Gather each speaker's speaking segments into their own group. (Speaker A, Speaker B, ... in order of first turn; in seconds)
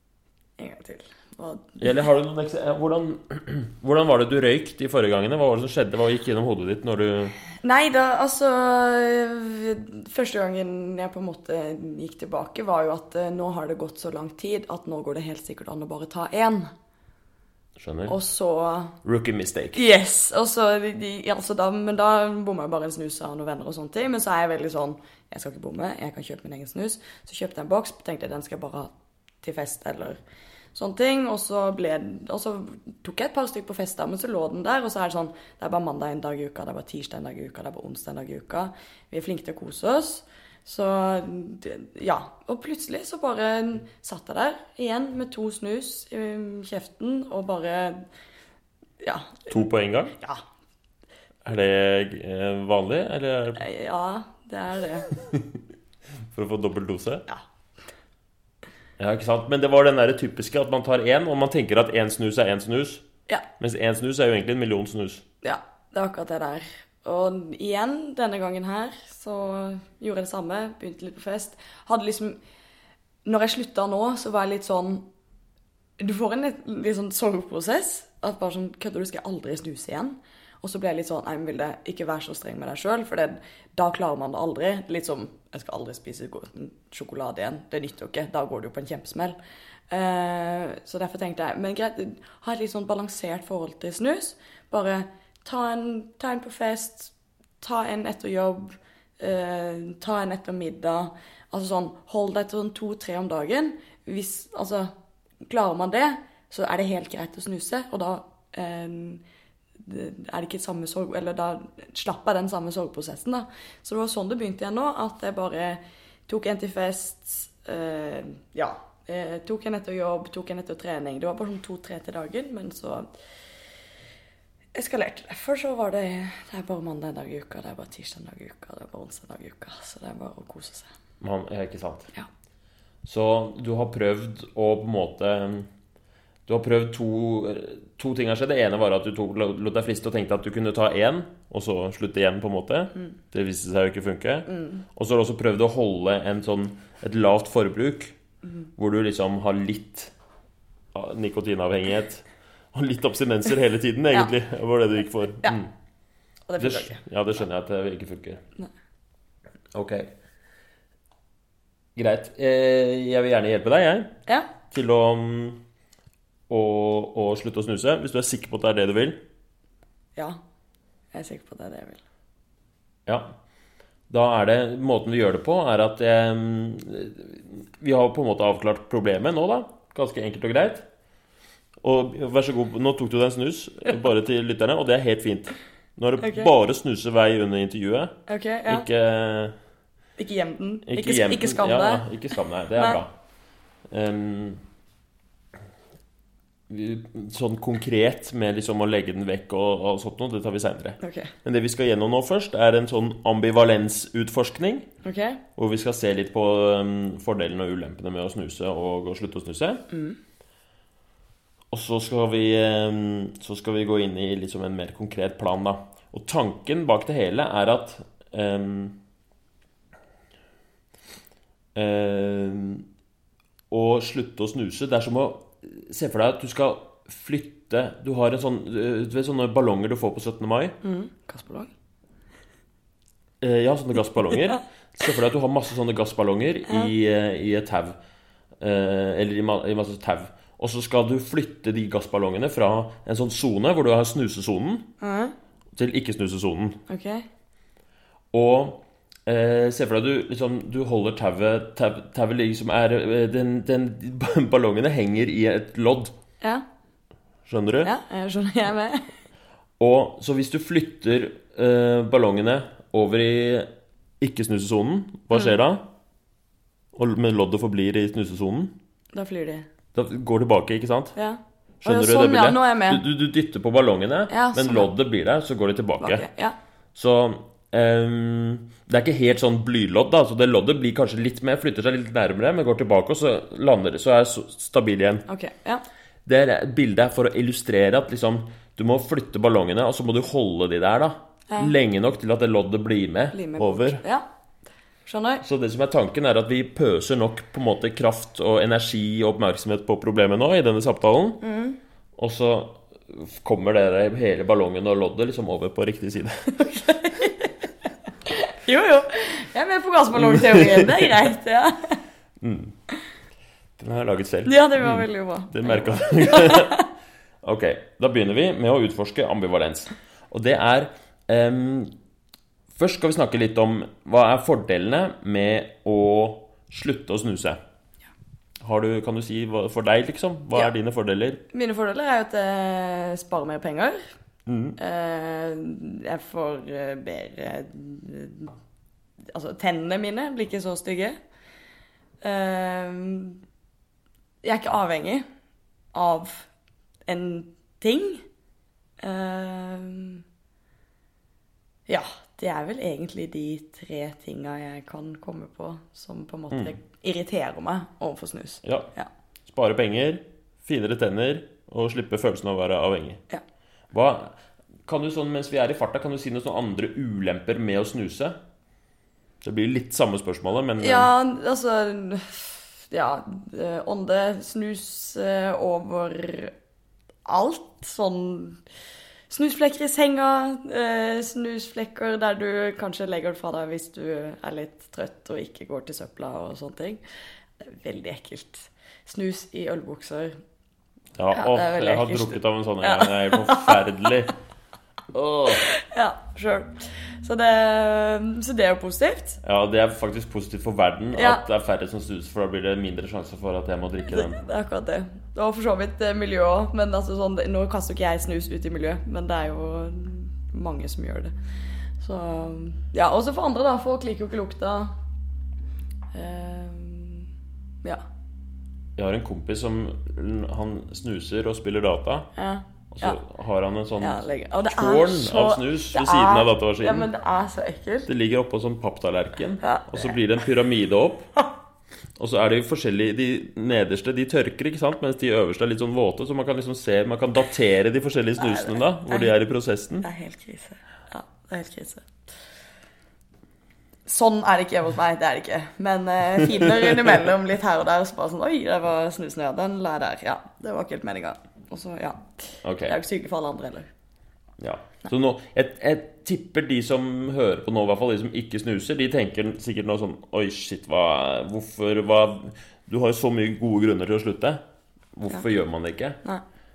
Speaker A: 0.6-1.9, 7.6-16.7, 18.1-19.0, 19.7-28.9, 29.4-30.2, 30.7-48.1, 49.0-49.6, 50.1-50.4, 53.6-55.1, 65.4-72.4, 73.2-75.0, 76.0-89.4, 89.9-104.9, 105.4-109.2, 109.8-123.1, 124.7-130.9, 144.5-144.8, 156.5-157.0, 171.1-172.0, 186.2-186.5, 188.3-188.8, 190.2-192.1, 201.0-201.3, 205.0-205.4, 209.9-210.2, 230.8-231.7, 245.0-245.3, 246.9-247.2, 257.8-259.1, 269.1-269.7, 271.1-273.0, 274.3-274.9, 276.0-276.6, 285.3-285.8, 291.5-291.7, 293.3-294.2, 295.1-295.4, 301.4-301.8, 306.6-307.5, 308.2-312.0, 314.4-316.8, 331.5-334.0, 334.8-338.5, 339.3-341.1, 342.2-343.4, 344.4-345.2, 345.9-346.5, 347.1-348.2, 349.0-350.2, 351.9-359.1, 370.8-376.5, 377.2-378.6, 379.3-387.0, 387.6-390.4, 391.3-393.9, 395.6-399.4, 401.1-401.4, 404.1-411.3, 412.0-415.0, 416.1-417.3, 422.4-423.2, 424.0-428.1, 429.6-430.2, 438.4-439.3, 440.0-442.1, 444.1-453.9
Speaker B: 1.8-7.3, 17.8-18.1, 19.0-19.8, 49.5-50.2, 51.4-53.6, 56.3-57.2, 59.0-63.0, 63.6-65.2, 131.2-132.1, 133.0-135.7, 136.5-148.2, 148.8-150.1, 150.9-155.7, 156.6-158.4, 159.7-160.1, 161.9-164.2, 164.7-165.6, 166.5-169.2, 173.1-173.3, 174.1-180.9, 181.8-189.6, 190.8-193.1, 193.9-194.6, 196.7-204.9, 205.6-209.8, 211.7-219.0, 221.7-222.9, 223.7-230.8, 233.4-238.0, 238.6-244.9, 245.8-246.8, 248.3-256.1, 257.5-257.9, 259.8-265.9, 266.9-268.7, 269.9-271.1, 271.8-276.2, 276.9-285.2, 286.2-294.0, 295.4-301.4, 302.2-306.7, 310.1-311.1, 312.4-312.7, 313.8-316.8, 317.4-321.9, 322.8-327.6, 328.6-331.4, 334.4-334.8, 356.5-356.8, 358.6-358.9, 359.4-363.2, 363.9-364.4, 364.9-368.4, 369.4-371.1, 391.2-394.3, 395.1-395.7, 399.4-404.4, 419.0-422.3, 422.9-427.1, 428.1-431.3, 432.2-440.1, 452.6-453.0, 454.6-464.6, 465.1-466.2